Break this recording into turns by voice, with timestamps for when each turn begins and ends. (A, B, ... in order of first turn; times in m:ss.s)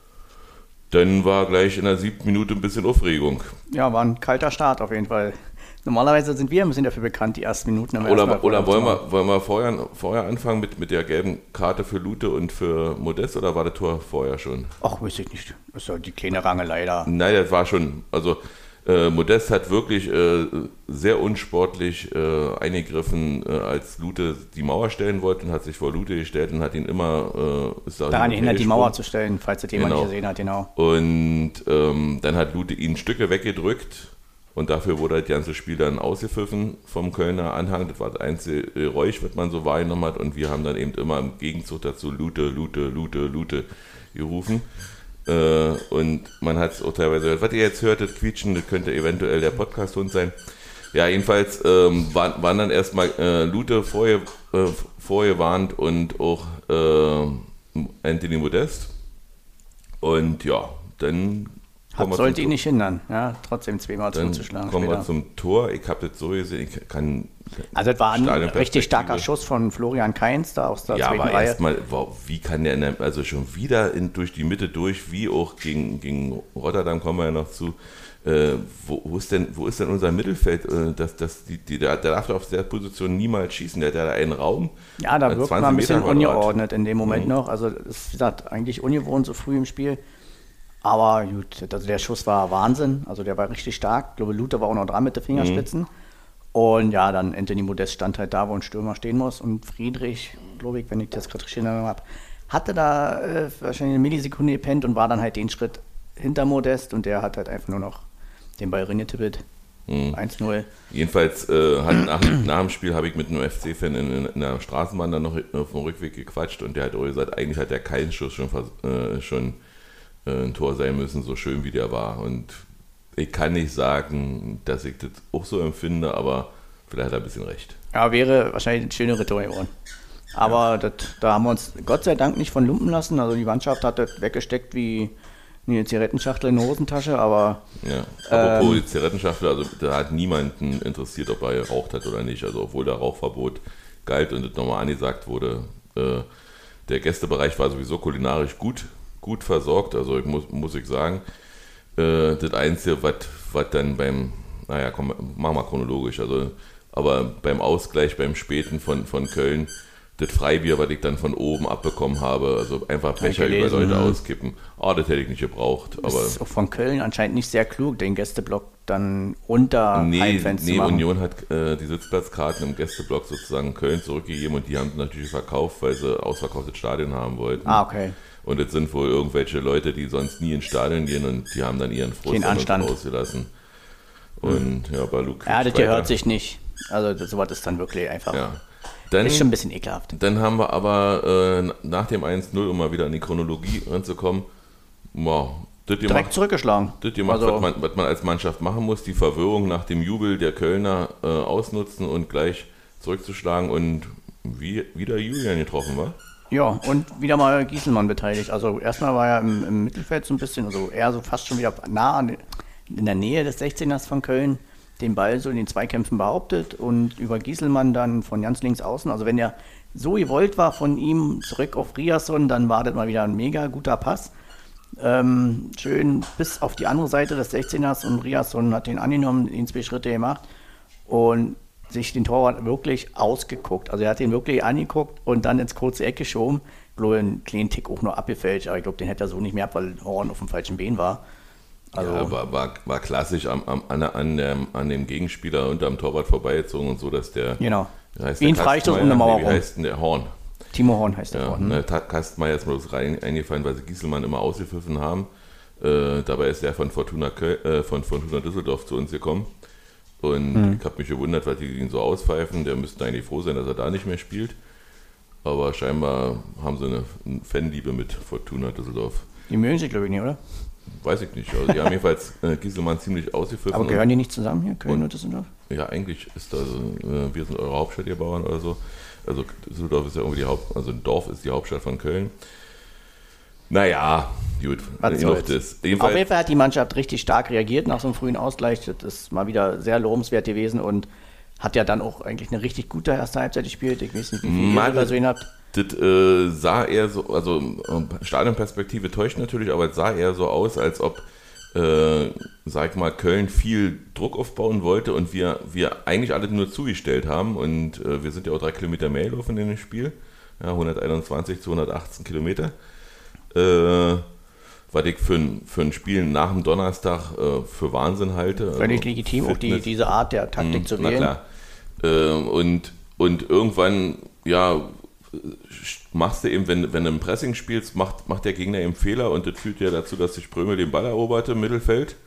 0:00.9-0:03.5 A
0:03.7-0:09.0 B
0:08.0-0:14.7 A
0:14.8-0:17.1 B
0:17.0-0:29.0 A
0:28.1-0:30.7 B
0:29.7-0:30.1 A
0:30.7-0:44.7 A
0:45.2-0:50.3 A
0:50.9-0:58.9 A
1:00.0-1:02.5 A
1:01.9-1:05.1 B
1:04.1-1:09.3 A
1:07.7-1:11.6 B
1:10.9-1:27.3 A
1:25.0-1:30.0 B
1:30.8-1:35.9 B
1:35.3-1:35.7 A
1:36.5-1:48.0 B
1:48.6-1:49.4 B
1:49.9-1:50.2 A
1:50.1-1:50.7 B
1:50.9-1:59.6 A
2:00.2-2:02.6 A
2:03.1-2:07.8 A
2:07.9-2:09.7 B
2:10.3-2:15.1 B
2:15.7-2:17.6 B
2:17.8-2:26.3 A
2:18.3-2:18.8 B
2:26.9-2:31.2 A
2:32.0-2:46.4 A
2:43.2-2:44.2 B
2:46.0-2:51.0 B
2:49.9-2:57.8 A
2:57.6-2:58.2 B
2:58.4-3:03.5 A
3:02.2-3:02.9 B
3:04.4-3:06.1 A
3:05.4-3:08.4 B
3:08.3-3:09.5 A
3:09.2-3:10.1 B
3:10.1-3:14.5 A
3:15.1-3:16.4 A
3:16.0-3:17.7 B
3:17.0-3:26.2 A
3:26.5-3:44.3 B
3:45.0-3:50.4 B
3:51.1-4:01.2 B
4:01.9-4:02.3 B
4:02.0-4:07.6 A
4:07.6-4:09.6 B
4:08.1-4:10.3 A
4:10.7-4:11.8 B
4:11.3-4:15.3 A
4:15.8-4:19.5 A
4:20.2-4:24.6 A
4:20.5-4:20.8 B
4:25.4-4:29.3 A
4:29.5-4:30.4 B
4:30.9-4:34.0 A
4:33.7-4:35.5 B
4:35.7-4:42.3 A
4:43.7-4:46.2 A
4:45.0-4:51.1 B
4:51.6-4:55.5 B
4:54.4-5:12.7 A
5:13.5-5:14.3 A
5:14.9-5:19.9 A
5:18.8-5:21.3 B
5:20.6-5:21.4 A
5:22.0-5:32.2 A